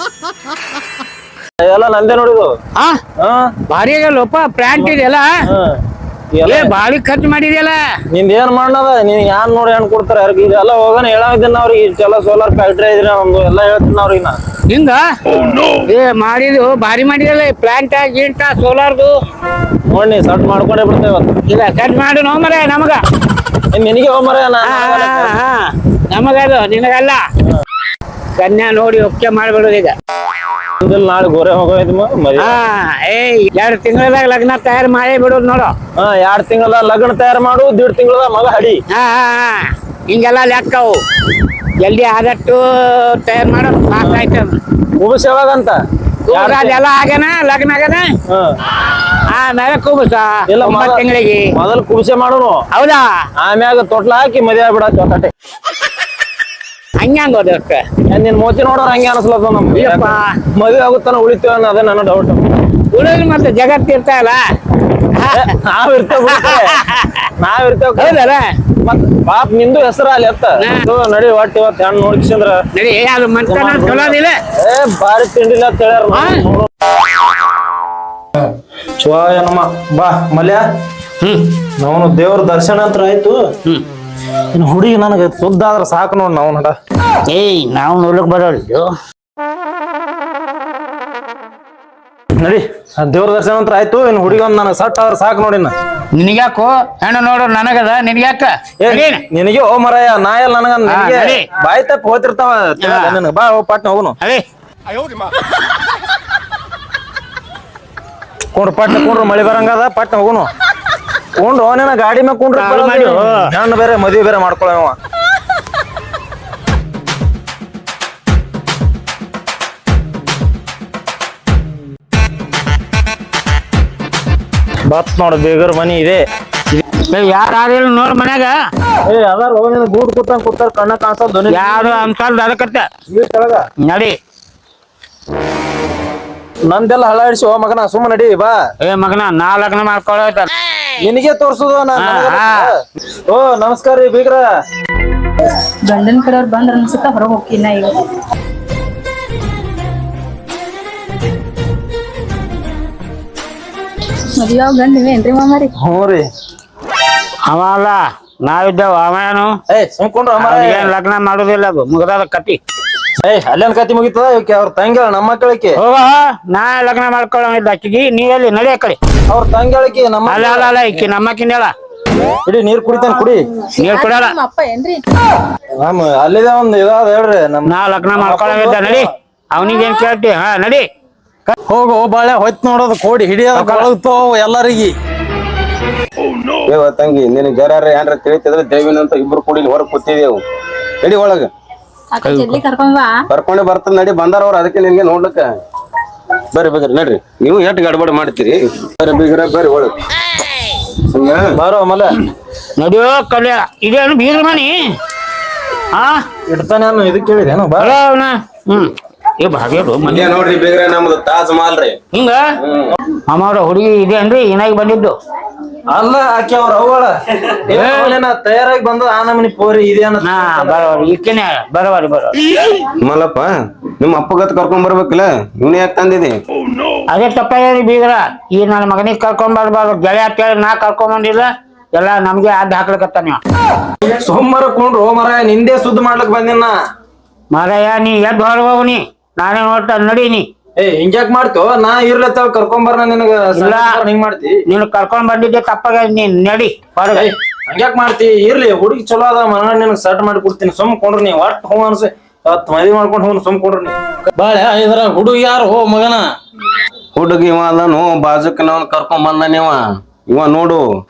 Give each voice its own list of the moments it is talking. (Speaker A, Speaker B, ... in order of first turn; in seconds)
Speaker A: 1.6-2.5, 3.2-3.5, 4.8-5.8, 6.3-6.7, 8.1-14.4, 19.9-21.3, 23.7-25.4, 30.8-32.6, 36.0-38.8, 44.0-44.3, 45.0-45.8, 46.3-46.8, 48.3-48.5, 50.5-52.6, 53.4-55.3, 58.1-62.5, 65.3-66.8, 67.4-68.2, 68.8-72.6, 73.4-76.7, 79.0-80.6, 81.8-83.4, 84.5-86.7, 92.4-95.7, 98.8-104.2, 108.5-110.5, 111.4-115.0, 124.9-126.2, 129.1-132.1, 133.1-133.7, 136.7-138.5, 141.0-142.8, 143.3-144.4, 155.8-156.2, 159.7-160.9, 163.2-165.8, 169.3-170.9, 172.4-173.4, 175.8-179.1, 201.5-202.1, 206.5-207.9, 215.9-220.9, 234.0-236.7, 240.8-244.6, 247.1-253.9
Speaker B: 3.7-5.3, 6.5-7.8, 14.7-15.1, 15.6-19.1, 21.5-23.0, 24.6-27.2, 28.4-29.9, 32.4-35.7, 38.9-41.0, 41.8-44.6, 46.3-48.0, 49.3-51.5, 52.7-53.1, 57.0-57.8, 59.7-60.4, 62.9-64.4, 65.1-65.5, 66.2-67.2, 68.0-68.5, 72.7-74.3, 76.1-76.4, 81.2-81.5, 87.3-88.9, 96.1-99.2, 100.9-101.5, 102.8-103.2, 112.5-113.5, 126.7-128.5, 131.5-132.9, 133.8-134.2, 138.8-140.5, 141.9-142.7, 157.5-159.6, 160.4-162.6, 165.8-169.0, 170.3-171.7, 173.8-174.3, 177.7-180.8, 183.5-183.9, 192.2-192.6, 202.8-204.8, 205.9-206.2, 207.8-210.3, 212.1-212.4, 213.3-215.1, 220.2-222.4, 227.1-233.4, 237.5-240.5, 243.6-243.9, 244.7-247.3
Speaker C: 145.9-148.0, 154.4-155.7, 173.7-175.0, 192.1-193.2
Speaker D: 181.5-184.9, 217.8-218.0, 254.3-256.2
Speaker E: 186.7-190.4, 191.0-191.5, 193.3-195.5, 196.5-200.0, 201.0-201.5, 210.1-212.0, 212.6-212.9, 223.0-223.5, 224.0-226.4, 257.1-260.8